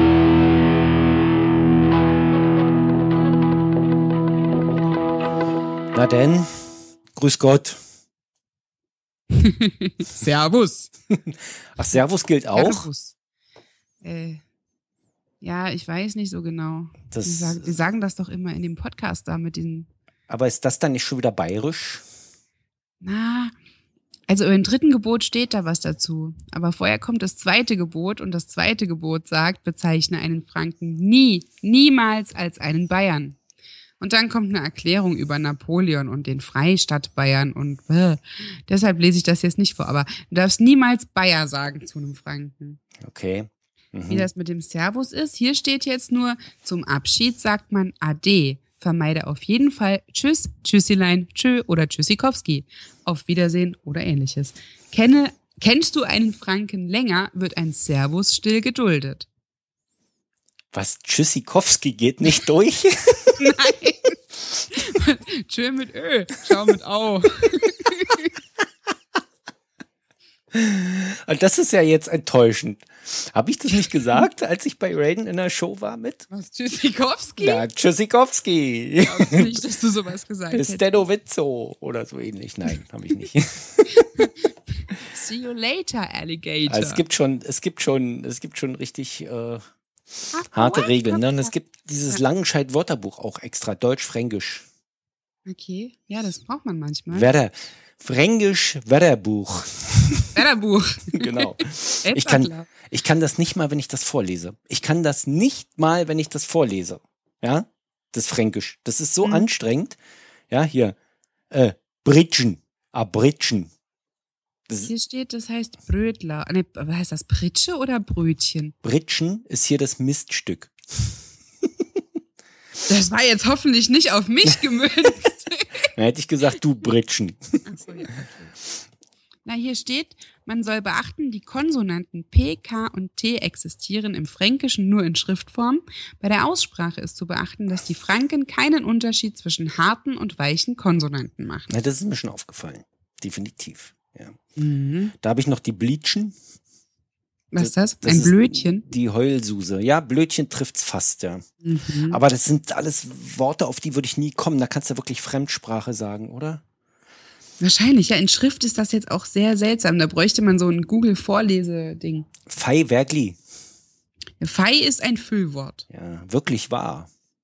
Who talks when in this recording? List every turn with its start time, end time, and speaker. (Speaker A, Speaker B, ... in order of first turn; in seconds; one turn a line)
Speaker A: 5.9-7.8
Speaker B: 9.3-10.9
Speaker A: 11.1-12.9
Speaker B: 12.5-13.1
Speaker B: 14.0-14.4
Speaker B: 15.4-19.9
Speaker A: 17.1-17.8
Speaker A: 20.3-22.0
Speaker B: 23.0-23.5
Speaker B: 24.3-33.4
Speaker B: 34.0-42.8
Speaker A: 43.0-44.3
Speaker B: 44.1-59.3
Speaker A: 60.7-63.5
Speaker B: 63.4-68.3
Speaker A: 70.5-76.3
Speaker B: 76.3-77.6
Speaker A: 77.4-79.5
Speaker B: 79.0-81.0
Speaker A: 80.5-84.3
Speaker B: 84.2-87.0
Speaker A: 86.7-89.6
Speaker B: 90.3-91.5
Speaker A: 90.5-94.6
Speaker B: 95.5-97.3
Speaker A: 97.1-100.4
Speaker B: 100.3-102.7
Speaker A: 101.1-110.0
Speaker A: 110.5-111.0
Speaker A: 111.5-113.7
Speaker A: 114.7-114.9
Speaker B: 114.9-118.7
Speaker A: 118.8-120.7
Speaker B: 122.8-125.7
Speaker A: 125.9-127.6
Speaker B: 127.7-128.5
Speaker B: 129.4-141.7
Speaker A: 141.7-144.4
Speaker B: 144.6-145.1
Speaker A: 145.2-146.3
Speaker B: 147.5-148.8
Speaker A: 147.6-151.4
Speaker B: 151.6-152.2
Speaker A: 152.0-156.6
Speaker B: 157.6-162.3
Speaker A: 162.5-163.4
Speaker B: 164.4-165.8
Speaker A: 165.9-167.1